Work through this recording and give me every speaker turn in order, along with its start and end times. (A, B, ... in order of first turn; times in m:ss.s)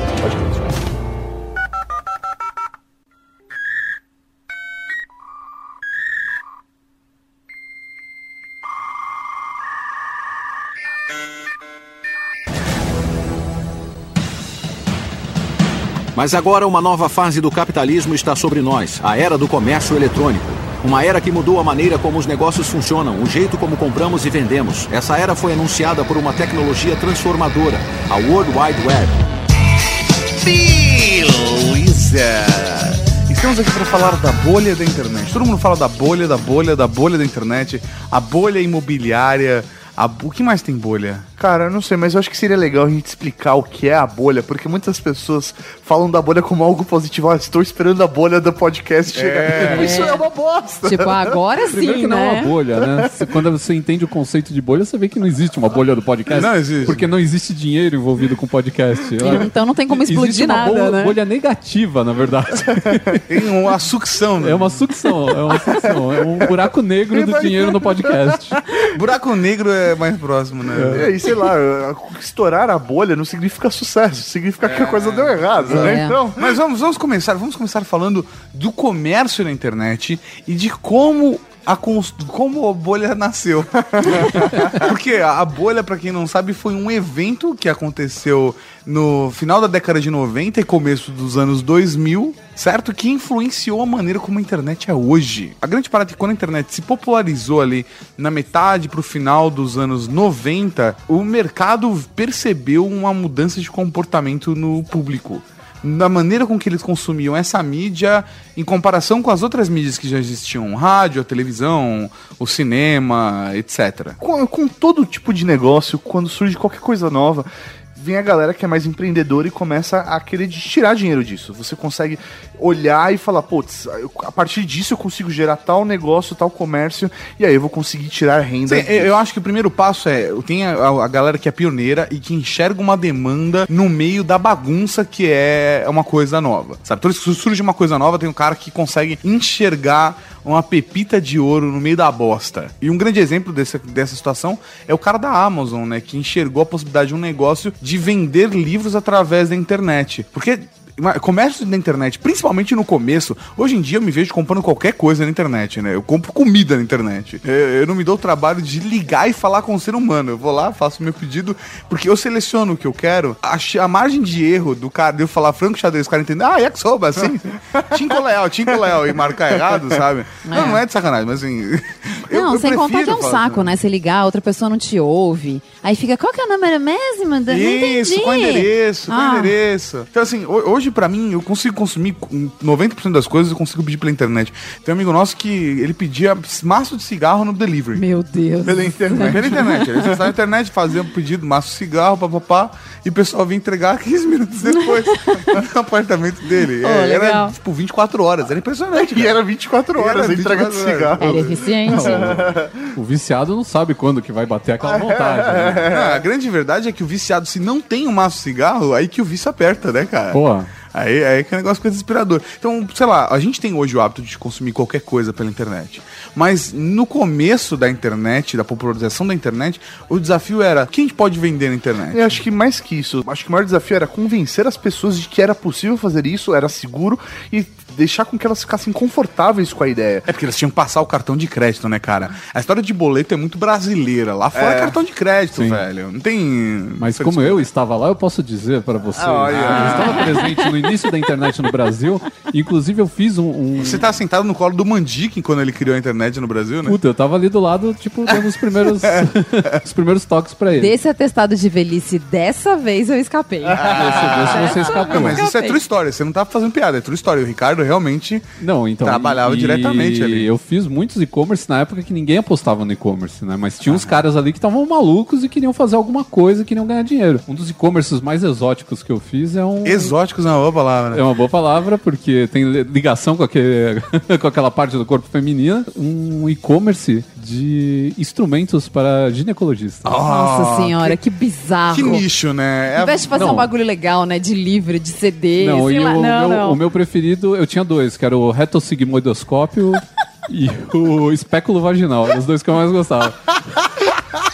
0:00.2-0:00.6 A
0:16.1-0:29.2 B
0:30.4-0:41.3 C
0:41.4-0:51.3 A
0:49.1-0:50.0 C
0:49.7-0:50.2 D
0:50.8-0:52.5 D
0:51.7-1:03.2 E
0:56.3-0:57.0 C
0:59.2-1:01.2 D
1:03.2-1:04.8 C
1:04.4-1:08.6 E
1:07.1-1:08.8 A
1:08.9-1:11.1 C
1:10.7-1:11.1 E
1:10.8-1:16.6 A
1:14.6-1:54.2 C
1:15.7-1:16.2 D
1:23.9-1:24.3 A
1:54.2-2:09.2 A
2:08.6-2:53.8 C
2:48.9-2:49.9 A
2:50.4-2:50.8 D
2:52.3-2:59.6 D
2:57.5-3:08.0 C
3:07.9-3:10.1 D
3:08.6-3:10.1 A
3:09.1-3:19.4 C
3:16.8-3:17.5 D
3:18.9-3:22.8 A
3:20.0-3:21.5 C
3:21.2-3:22.4 D
3:21.9-3:22.3 E
3:22.9-3:25.9 E
3:24.8-3:26.2 A
3:25.9-3:42.3 C
3:30.3-3:30.7 E
3:42.1-3:50.3 A
3:50.2-3:57.6 C
3:54.5-3:55.0 A
3:55.5-3:55.8 E
3:57.0-4:04.0 E
3:59.1-4:00.3 A
3:59.4-4:00.4 C
4:03.8-4:07.0 C
4:06.8-4:10.9 E
4:10.8-4:15.8 D
4:13.7-4:18.4 C
4:13.8-4:15.4 E
4:18.6-4:30.1 E
4:19.0-4:20.5 C
4:23.8-4:24.2 C
4:29.8-4:31.2 C
4:31.1-4:40.2 E
4:40.0-4:41.2 C
4:40.2-4:42.3 D
4:41.9-4:43.6 C
4:42.9-4:46.8 D
4:43.3-4:43.7 E
4:45.6-4:53.9 E